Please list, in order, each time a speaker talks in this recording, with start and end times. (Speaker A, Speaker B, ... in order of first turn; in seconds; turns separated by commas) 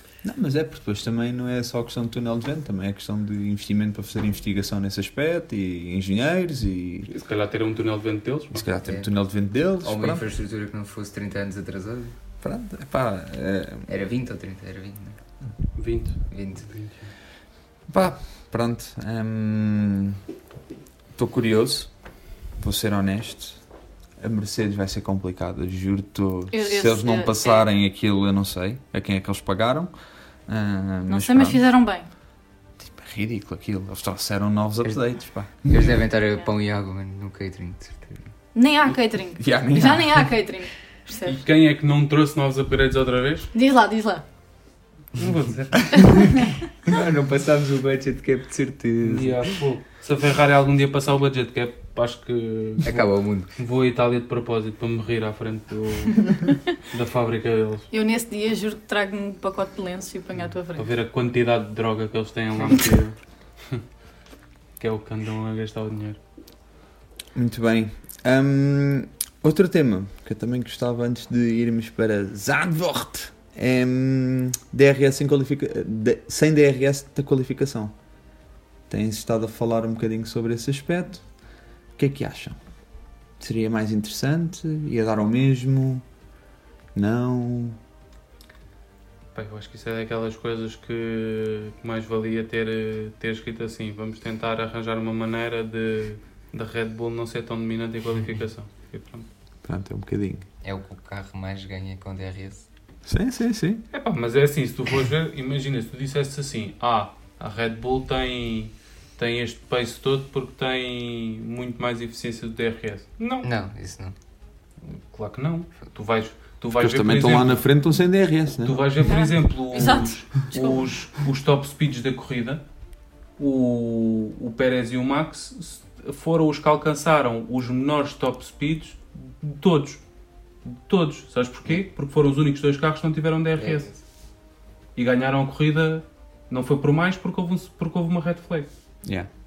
Speaker A: 0.2-7.1, Speaker B: 7.1-8.6, Speaker A: 8.5-10.2, Speaker C: 8.8-9.1, Speaker C: 9.8-12.1, Speaker A: 12.4-13.9, Speaker C: 13.9-15.2, Speaker B: 15.7-17.1, Speaker C: 16.3-16.7, Speaker A: 17.9-20.2, Speaker A: 21.1-21.9, Speaker A: 22.6-23.6, Speaker A: 24.2-29.9, Speaker D: 26.5-27.6, Speaker A: 30.5-31.7, Speaker D: 31.1-32.1, Speaker A: 32.8-35.8, Speaker C: 34.8-38.2, Speaker D: 38.5-41.4, Speaker A: 39.4-40.3, Speaker B: 41.2-43.5, Speaker D: 43.5-44.2, Speaker B: 45.1-45.9, Speaker D: 46.1-46.4, Speaker C: 46.9-49.5, Speaker B: 49.0-57.9, Speaker C: 52.8-53.5, Speaker D: 57.9-60.9, Speaker B: 60.7-63.1, Speaker B: 64.8-66.2, Speaker A: 67.3-77.9, Speaker A: 78.9-81.2, Speaker A: 82.0-82.6, Speaker A: 83.4-86.0, Speaker A: 86.9-87.8, Speaker B: 89.3-99.3, Speaker A: 99.6-100.5, Speaker C: 100.6-102.7, Speaker A: 103.0-103.8, Speaker B: 103.9-113.5, Speaker C: 113.4-114.1, Speaker B: 114.8-117.7, Speaker A: 116.7-118.9, Speaker B: 118.6-122.6, Speaker D: 119.1-120.8, Speaker B: 123.4-130.0, Speaker B: 130.7-133.9, Speaker C: 133.6-134.0, Speaker B: 134.9-138.7, Speaker A: 139.0-139.3